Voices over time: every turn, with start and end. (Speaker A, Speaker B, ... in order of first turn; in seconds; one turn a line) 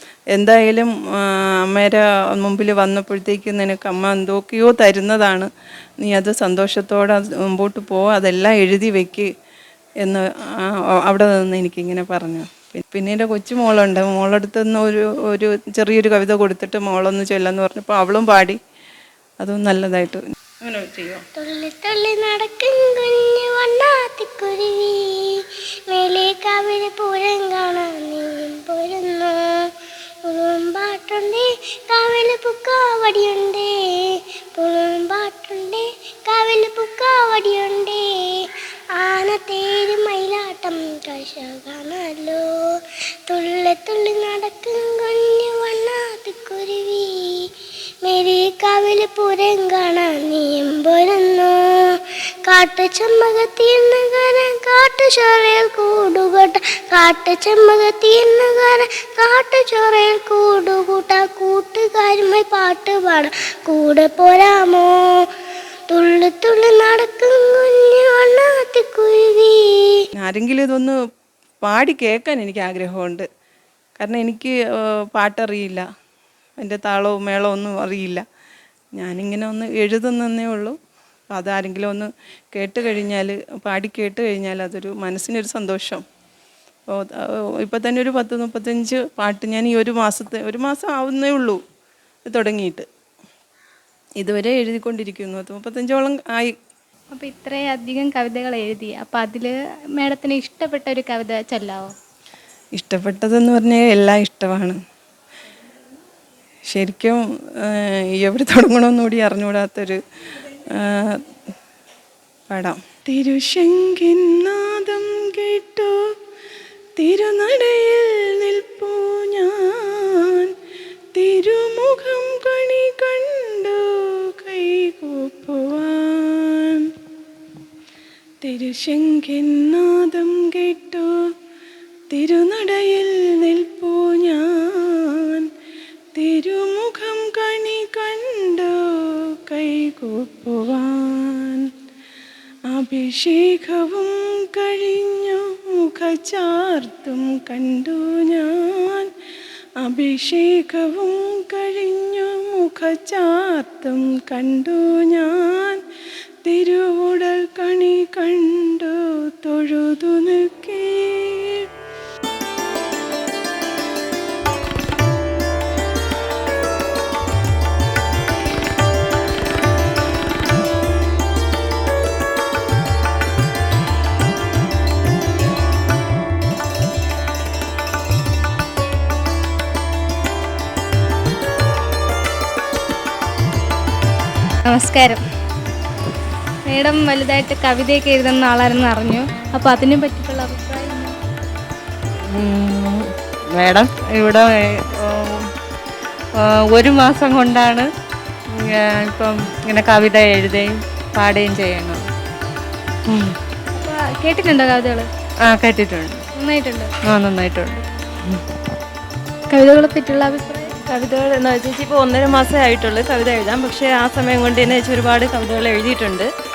Speaker A: 0.3-9.3
Speaker A: 10.0-18.6
Speaker A: 19.4-21.2
Speaker B: 21.4-29.7
Speaker B: 30.3-42.5
Speaker B: 43.3-47.5
Speaker B: 48.0-65.2
Speaker B: 65.9-70.0
Speaker A: 70.2-71.0
Speaker A: 71.6-73.3
Speaker A: 74.0-75.8
Speaker A: 76.6-78.2
Speaker A: 79.0-80.8
Speaker A: 81.3-86.0
Speaker A: 86.9-91.6
Speaker A: 92.2-92.8
Speaker A: 94.2-96.5
Speaker C: 97.1-101.9
Speaker A: 102.8-104.8
Speaker A: 106.7-110.0
Speaker A: 110.7-111.2
Speaker A: 112.5-116.1
Speaker A: 117.0-120.5
Speaker A: 121.1-126.9
Speaker A: 128.4-131.3
Speaker A: 132.1-135.5
Speaker A: 136.1-141.7
Speaker A: 142.7-149.1
Speaker A: 149.8-155.8
Speaker A: 156.4-161.7
Speaker C: 184.7-185.2
Speaker C: 186.7-191.1
Speaker D: 192.4-193.0
Speaker D: 193.6-194.5
Speaker D: 196.7-197.8
Speaker D: 198.7-202.0
Speaker C: 203.7-205.1
Speaker D: 205.5-206.1
Speaker C: 206.3-206.9
Speaker D: 207.1-207.8
Speaker C: 209.5-210.7
Speaker E: 210.8-216.3